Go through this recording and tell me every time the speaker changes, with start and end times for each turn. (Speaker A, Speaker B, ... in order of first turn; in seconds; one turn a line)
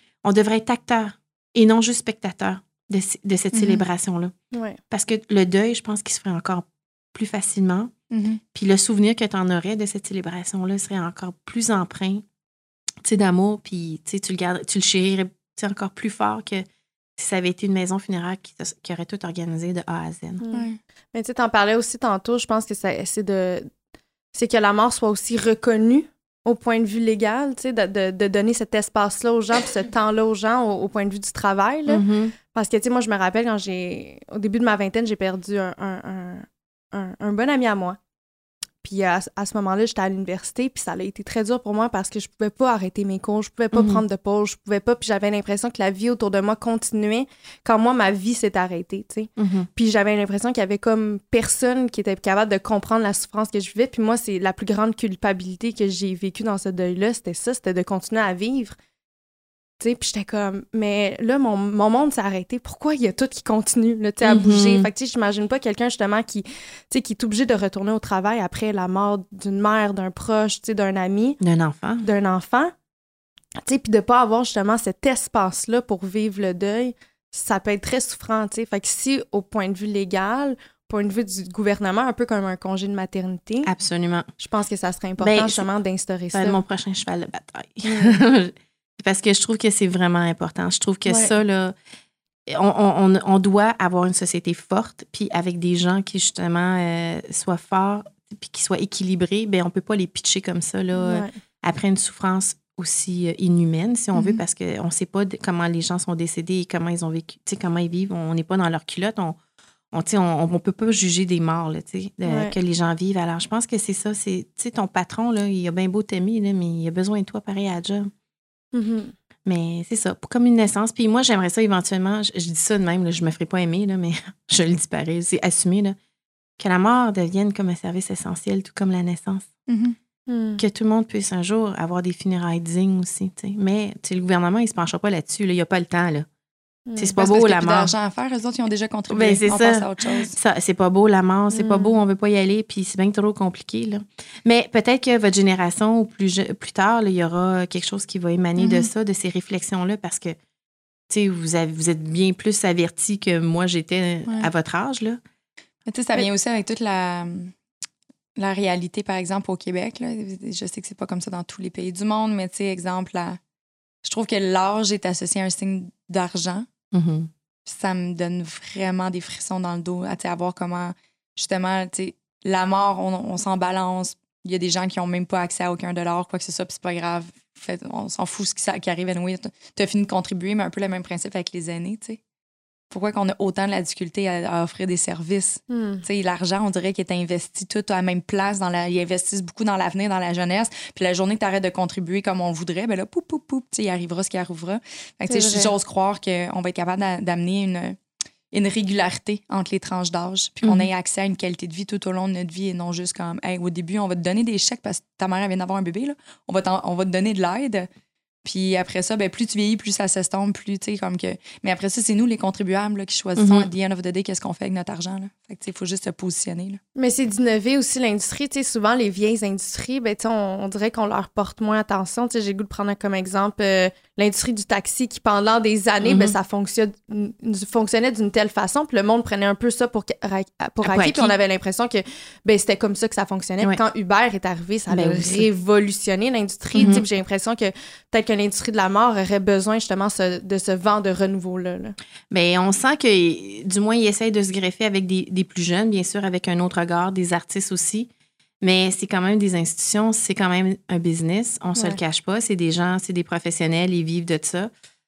Speaker A: 0.2-4.3
Speaker B: 3.5-3.8
Speaker C: 4.5-4.8
Speaker A: 4.9-7.9
Speaker B: 8.1-8.4
Speaker A: 8.5-12.2
Speaker A: 13.0-16.6
Speaker A: 17.2-20.4
Speaker C: 20.4-23.7
Speaker B: 20.5-20.8
Speaker C: 24.3-38.0
Speaker A: 31.9-32.3
Speaker C: 38.8-58.8
Speaker A: 43.7-44.0
Speaker A: 49.4-49.7
Speaker C: 59.8-71.4
Speaker A: 64.2-64.9
Speaker A: 71.4-72.0
Speaker C: 72.0-72.7
Speaker C: 73.6-83.7
Speaker A: 83.6-84.3
Speaker C: 84.4-86.6
Speaker A: 85.2-85.7
Speaker A: 86.3-91.7
Speaker C: 87.8-88.2
Speaker C: 91.1-91.3
Speaker A: 92.5-109.4
Speaker C: 101.0-101.3
Speaker B: 104.1-104.4
Speaker A: 109.9-118.1
Speaker C: 112.2-112.5
Speaker C: 118.7-119.1
Speaker A: 119.5-126.0
Speaker A: 126.6-129.5
Speaker B: 129.7-129.9
Speaker C: 130.3-130.6
Speaker A: 130.6-136.3
Speaker C: 136.9-137.2
Speaker A: 137.0-137.9
Speaker B: 137.2-140.3
Speaker A: 139.1-150.4
Speaker C: 141.5-141.9
Speaker B: 148.6-148.9
Speaker A: 151.1-155.2
Speaker B: 155.9-157.5
Speaker B: 158.4-163.4
Speaker B: 164.0-166.7
Speaker A: 166.9-167.3
Speaker B: 167.7-182.2
Speaker B: 182.9-198.0
Speaker C: 185.7-186.0
Speaker C: 195.3-195.7
Speaker B: 198.5-207.9
Speaker A: 200.6-200.9
Speaker B: 208.4-216.8
Speaker A: 213.4-213.7
Speaker C: 216.9-241.9
Speaker A: 226.0-226.3
Speaker A: 230.8-231.3
Speaker A: 234.9-235.4
Speaker A: 236.8-237.0
Speaker A: 242.3-248.1
Speaker A: 248.6-254.7